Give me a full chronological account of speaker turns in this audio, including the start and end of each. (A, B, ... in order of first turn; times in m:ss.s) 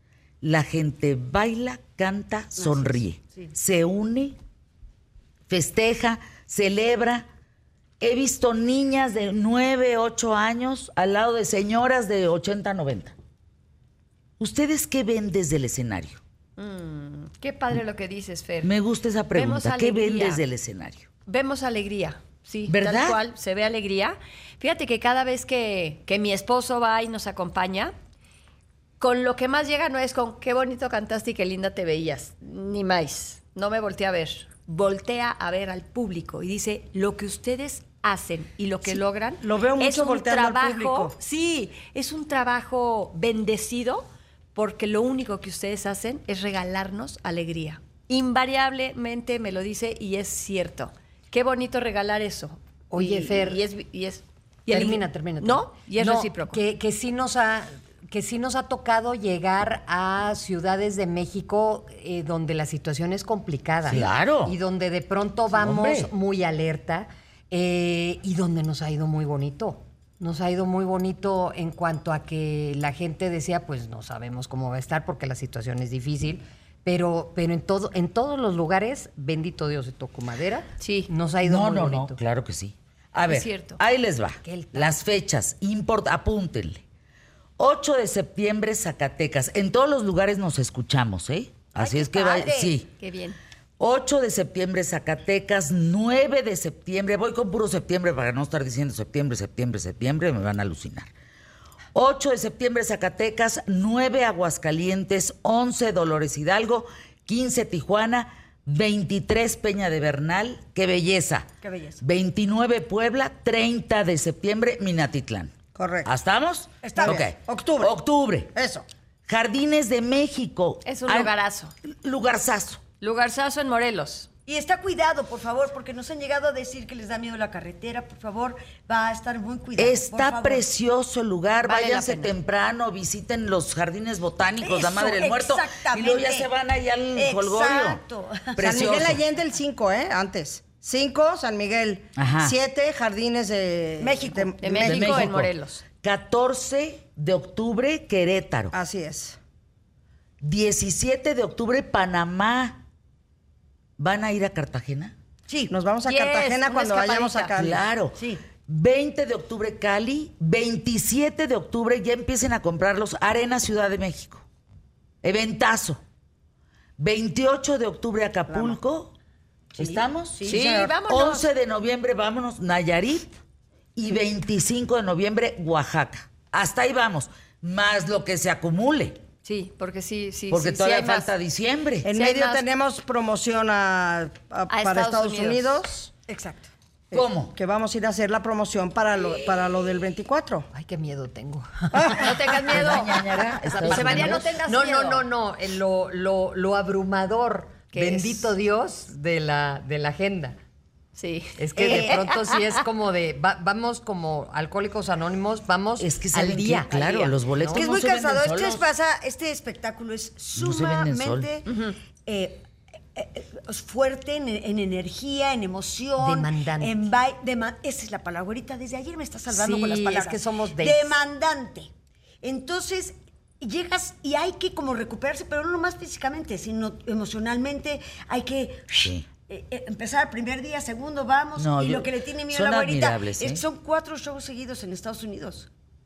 0:00.4-0:04.4 A
0:05.5-0:07.3 A
0:08.0-0:13.2 A
0:14.4-0:16.2 A
0:16.6-0:18.8 B
0:18.6-0:21.1 A
0:19.3-0:20.4 B
0:21.3-0:27.9 B
0:22.7-0:23.2 A
0:29.0-0:56.6 B
0:39.4-0:41.2 C
0:52.9-0:53.6 D
0:54.7-1:22.2 D
1:03.9-1:04.6 A
1:05.5-1:06.1 A
1:20.8-1:21.1 B
1:21.4-1:26.8 A
1:23.3-1:23.8 B
1:24.4-1:25.0 D
1:27.6-1:32.9 A
1:31.8-1:32.8 E
1:33.0-1:33.4 B
1:33.8-1:41.1 A
1:41.9-1:51.5 A
1:51.6-1:52.0 E
1:52.0-1:55.5 A
1:55.8-1:56.1 C
1:56.0-1:58.5 A
1:56.8-1:57.2 E
1:57.0-1:58.0 C
1:58.5-1:58.9 C
1:59.3-2:01.3 A
2:00.8-2:01.7 B
2:01.8-2:02.8 A
2:03.0-2:04.3 B
2:04.5-2:10.6 E
2:09.8-2:18.0 A
2:11.6-2:12.4 B
2:14.6-2:16.5 E
2:17.2-2:18.9 E
2:18.6-2:19.2 A
2:18.6-2:25.3 C
2:22.2-2:22.6 A
2:24.0-2:24.5 E
2:24.6-2:25.8 B
2:24.8-2:28.7 A
2:28.7-2:29.4 C
2:30.4-2:32.8 A
2:34.0-2:35.2 A
2:35.5-2:35.7 E
2:35.7-2:37.8 C
2:36.0-2:37.5 B
2:37.6-2:44.4 A
2:38.2-2:38.4 E
2:45.2-2:46.0 A
2:47.0-2:49.1 A
2:48.5-2:48.8 C
2:49.8-2:53.4 A
2:50.4-2:51.5 B
2:54.0-2:59.2 A
2:59.4-3:01.3 B
3:00.5-3:02.1 A
3:02.0-3:06.2 C
3:02.1-3:02.6 B
3:04.7-3:05.8 B
3:06.3-3:06.7 E
3:07.1-3:10.7 C
3:07.1-3:07.5 A
3:10.7-3:12.4 D
3:11.9-3:12.3 C
3:12.1-3:15.2 B
3:12.7-3:14.5 A
3:13.8-3:20.6 D
3:17.9-3:18.5 B
3:21.2-3:22.8 B
3:21.6-3:27.9 D
3:26.0-3:28.9 A
3:27.7-3:31.7 E
3:30.6-3:31.5 A
3:32.2-3:41.9 E
3:36.2-3:37.1 D
3:39.5-3:41.2 D
3:42.4-3:55.7 E
3:51.6-3:53.6 A